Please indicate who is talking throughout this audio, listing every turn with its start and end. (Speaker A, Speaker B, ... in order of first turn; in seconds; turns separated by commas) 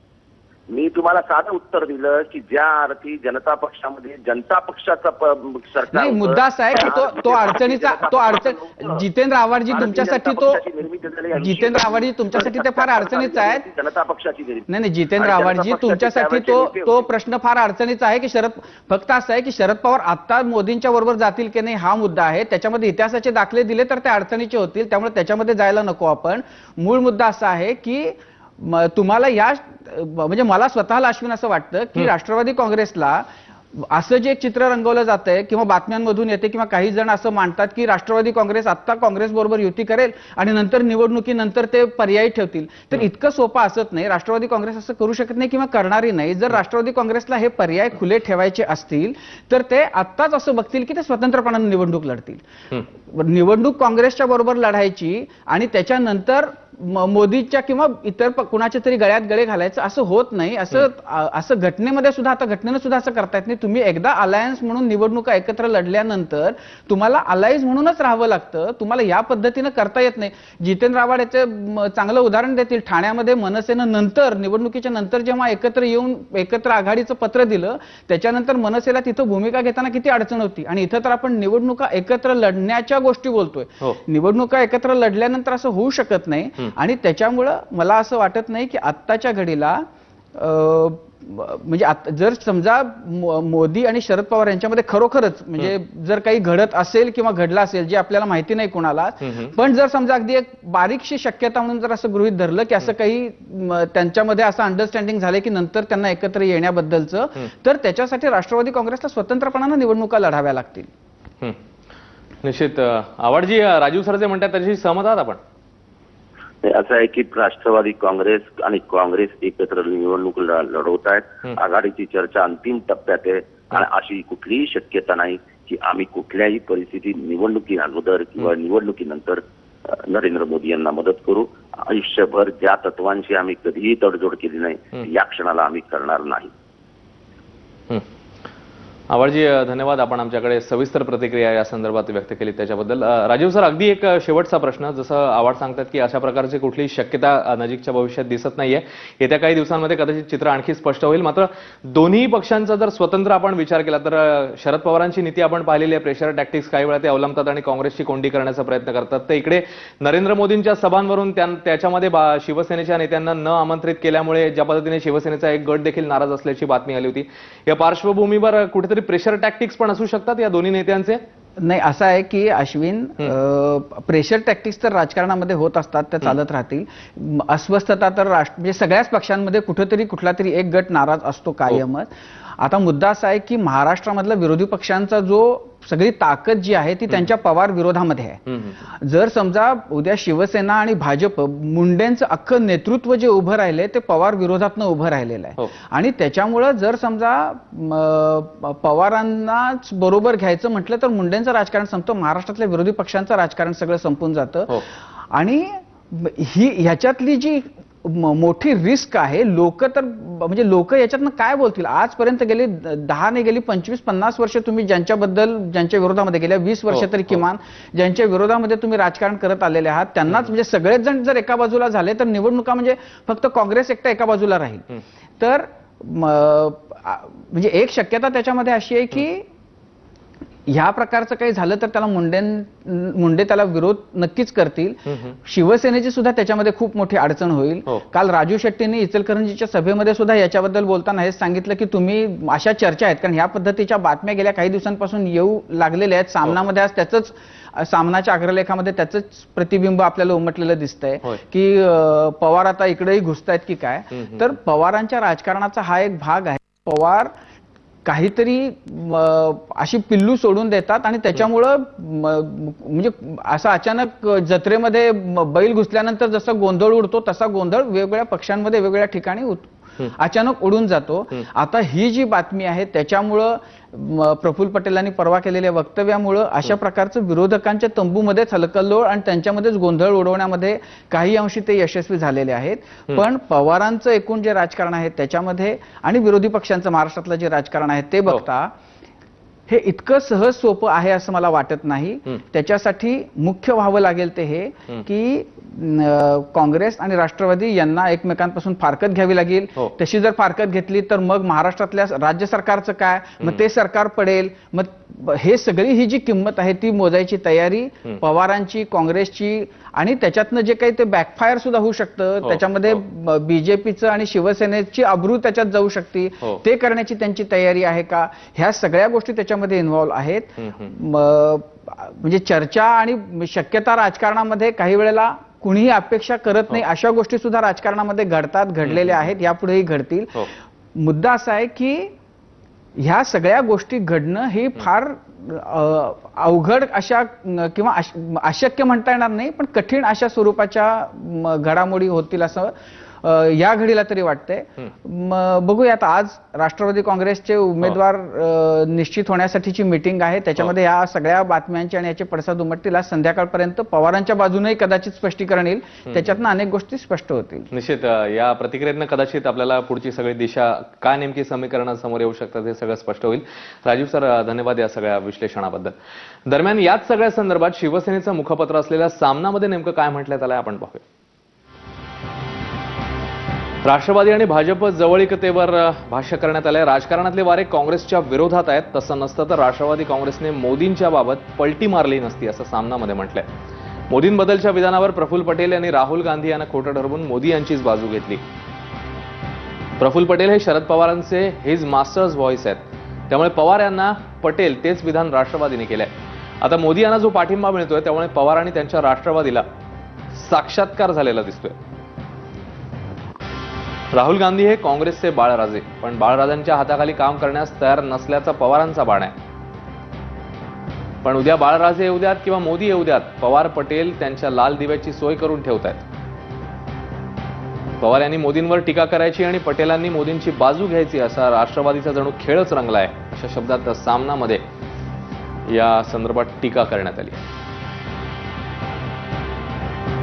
Speaker A: 0.7-9.0, Speaker B: 5.9-10.6, Speaker A: 9.7-14.7, Speaker B: 11.3-13.7, Speaker B: 14.7-52.4, Speaker A: 15.2-17.1, Speaker B: 53.1-89.8, Speaker B: 90.3-110.9, Speaker C: 99.2-99.5, Speaker C: 112.4-115.4, Speaker A: 116.6-136.5, Speaker C: 139.1-171.2, Speaker B: 171.6-224.8, Speaker C: 188.5-188.8, Speaker C: 216.9-217.4, Speaker B: 225.4-229.5, Speaker B: 230.7-257.3, Speaker C: 235.1-235.3, Speaker B: 258.1-288.7, Speaker B: 289.7-332.1, Speaker C: 312.4-313.0, Speaker C: 328.9-329.3, Speaker B: 333.0-357.7, Speaker C: 356.1-356.4, Speaker C: 357.7-365.9, Speaker C: 366.5-371.0, Speaker C: 373.8-383.5, Speaker C: 384.1-388.4, Speaker C: 390.0-396.1, Speaker C: 396.6-399.6, Speaker C: 400.3-401.8, Speaker C: 404.1-409.3, Speaker C: 411.2-416.0, Speaker C: 418.0-424.6, Speaker C: 425.7-427.4